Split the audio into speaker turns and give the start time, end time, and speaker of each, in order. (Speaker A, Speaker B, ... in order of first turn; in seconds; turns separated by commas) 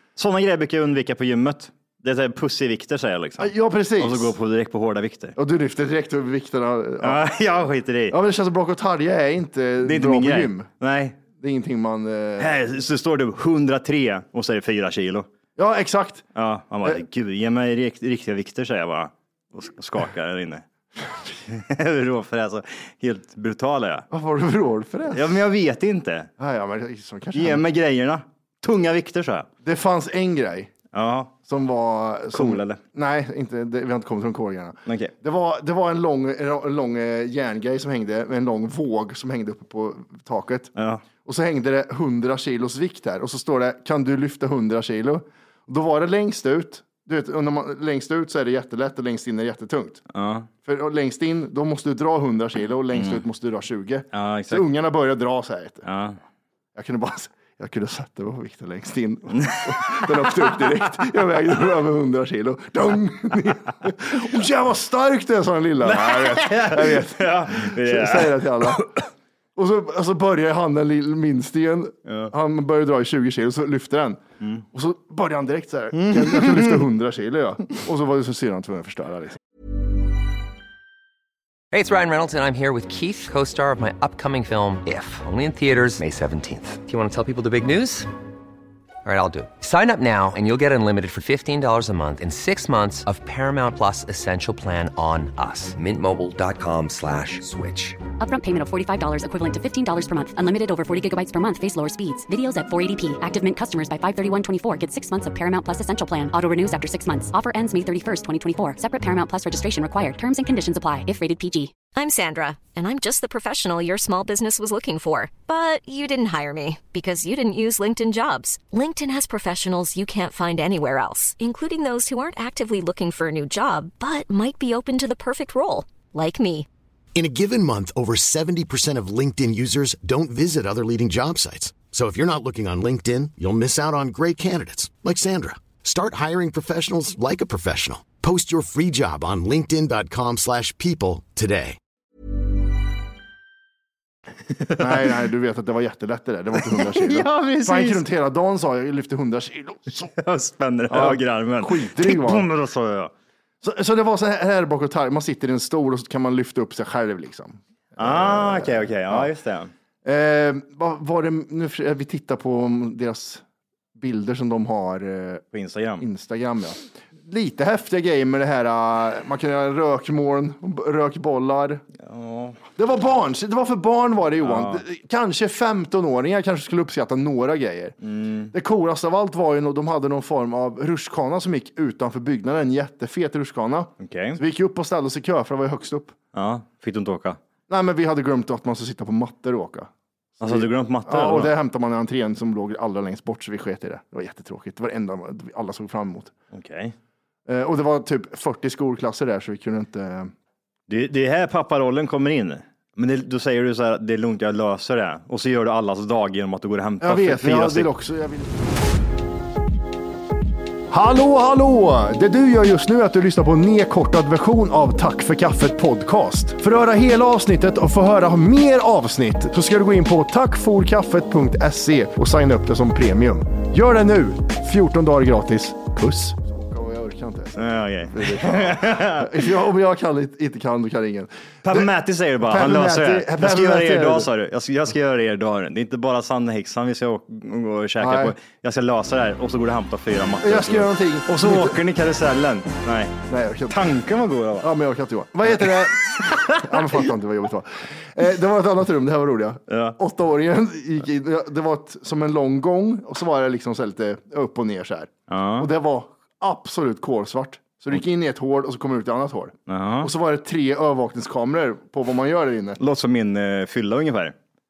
Speaker A: 0.1-5.3, Speaker B: 3.4-4.3, Speaker B: 5.3-7.2, Speaker A: 7.0-8.2, Speaker B: 8.1-10.7, Speaker A: 9.8-11.2, Speaker B: 11.4-12.6, Speaker A: 12.4-15.3, Speaker B: 15.6-16.3, Speaker A: 16.4-20.6, Speaker A: 21.3-24.1, Speaker B: 24.1-25.4, Speaker A: 25.1-26.3, Speaker B: 26.4-27.6, Speaker A: 27.3-29.5, Speaker B: 29.6-30.7, Speaker A: 30.9-31.3, Speaker B: 31.5-40.7, Speaker A: 32.3-32.8, Speaker A: 34.9-35.1, Speaker A: 40.8-41.0, Speaker B: 41.2-50.0, Speaker A: 50.1-50.5, Speaker B: 50.6-55.9, Speaker A: 52.9-53.2, Speaker A: 54.1-54.6, Speaker A: 55.9-56.2, Speaker B: 56.8-68.8, Speaker A: 59.5-60.5, Speaker A: 65.8-69.0, Speaker B: 69.5-74.2, Speaker A: 72.1-72.3, Speaker B: 74.7-79.4, Speaker A: 75.9-76.8, Speaker C: 81.7-88.1, Speaker C: 89.0-98.0, Speaker D: 98.2-111.8, Speaker E: 111.9-126.7, Speaker F: 127.1-141.8, Speaker B: 144.8-150.1, Speaker A: 146.6-148.0, Speaker A: 150.1-153.1, Speaker B: 150.9-152.5, Speaker B: 153.6-159.3, Speaker A: 158.0-159.7, Speaker B: 160.0-163.4, Speaker B: 163.9-165.4, Speaker A: 165.5-166.0, Speaker B: 166.0-171.8, Speaker A: 172.0-172.6, Speaker B: 172.8-178.0, Speaker A: 174.4-174.8, Speaker A: 178.0-178.5, Speaker B: 178.5-186.1, Speaker A: 184.0-184.4, Speaker A: 186.3-187.4, Speaker B: 187.7-196.3, Speaker A: 190.4-191.5, Speaker A: 196.5-196.9, Speaker B: 197.5-200.3, Speaker A: 200.9-207.9, Speaker B: 207.0-208.5, Speaker B: 210.9-234.3, Speaker A: 227.6-229.5, Speaker A: 231.7-244.7, Speaker B: 238.0-238.3, Speaker B: 240.4-241.8, Speaker B: 243.3-244.0, Speaker B: 244.6-262.8, Speaker A: 245.6-246.9, Speaker A: 249.7-250.0, Speaker A: 255.3-255.7, Speaker A: 259.7-260.1, Speaker A: 262.8-264.4